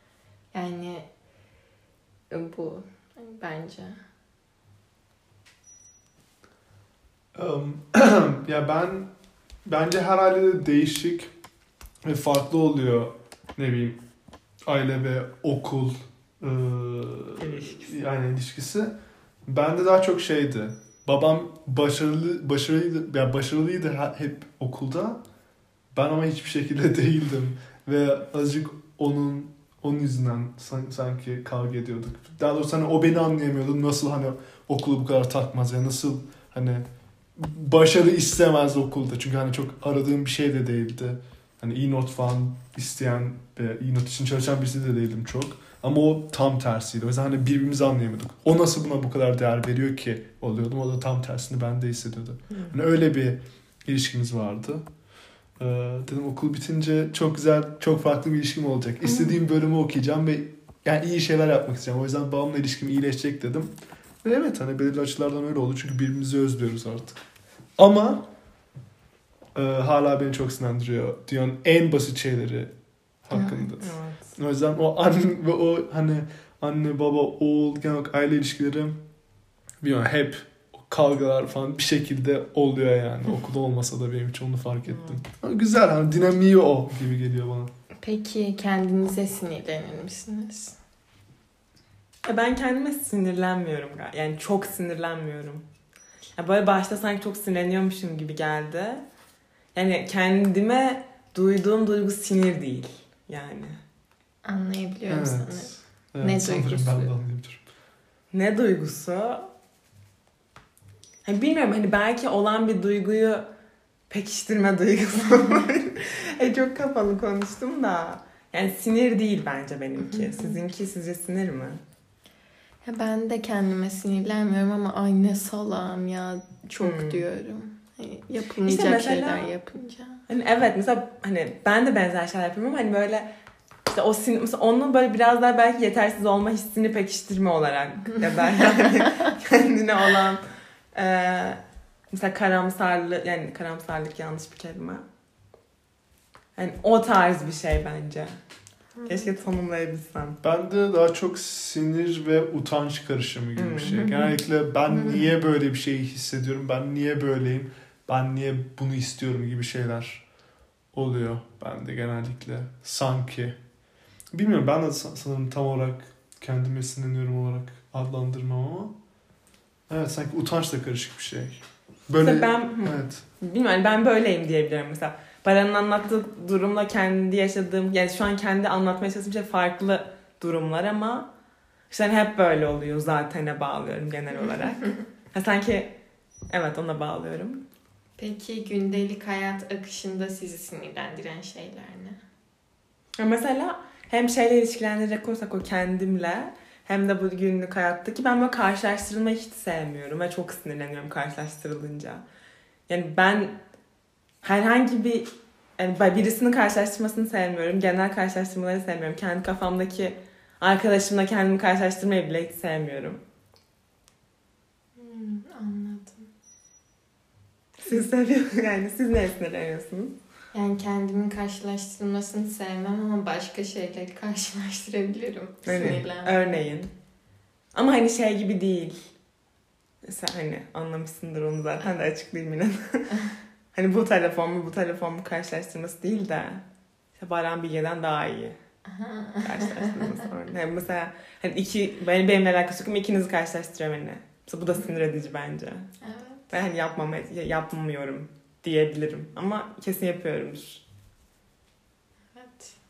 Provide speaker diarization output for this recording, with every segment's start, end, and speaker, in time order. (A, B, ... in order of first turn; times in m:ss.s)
0:00.5-0:01.1 A
0:02.3-0:04.0 A
0:07.3-0:09.1 B
0:09.6-0:11.3 B
0:12.0-0:14.0 B
0:14.6-0:19.0 B
0:17.4-0:18.0 C
0:19.5-0:25.2 B
0:25.9-0:36.8 B
0:37.3-0:54.8 B
0:55.6-1:07.2 B
0:59.0-0:59.3 C
1:07.8-1:08.3 B
1:09.5-1:12.7 B
1:13.2-1:19.0 B
1:13.3-1:13.7 A
1:13.8-1:14.3 C
1:19.8-1:27.7 B
1:24.8-1:25.2 C
1:28.0-1:30.8 A
1:32.2-1:35.6 C
1:36.4-1:39.0 C
1:39.7-1:43.8 C
1:44.4-1:47.1 A
1:45.1-1:47.6 B
1:48.3-1:49.5 C
1:51.2-1:53.5 C
1:54.1-2:01.8 C
2:00.1-2:00.5 A
2:02.8-2:10.2 A
2:06.8-2:07.2 C
2:08.6-2:09.5 C
2:10.3-2:13.3 C
2:13.9-2:20.4 C
2:20.9-2:21.6 C
2:22.1-2:25.0 C
2:26.6-2:28.4 C
2:29.0-2:29.3 A
2:29.0-2:30.4 C
2:30.4-2:40.2 B
2:33.6-2:34.1 C
2:33.9-2:34.3 A
2:40.9-2:43.6 B
2:44.3-2:48.9 B
2:49.9-2:53.2 B
2:52.2-3:01.3 C
3:01.9-3:05.9 C
3:06.5-3:07.6 C
3:08.2-3:12.2 A
3:13.2-3:22.2 C
3:22.9-3:23.6 C
3:24.4-3:33.2 C
3:35.0-3:36.3 A
3:37.8-3:40.1 C
3:40.5-3:46.6 A
3:45.6-3:46.9 C
3:47.7-3:49.1 C
3:50.0-3:53.2 C
3:53.7-3:56.6 C
3:57.2-3:58.6 C
3:58.8-4:00.2 A
3:59.4-4:05.9 C
4:06.0-4:06.5 A
4:06.5-4:10.8 C
4:12.3-4:12.7 A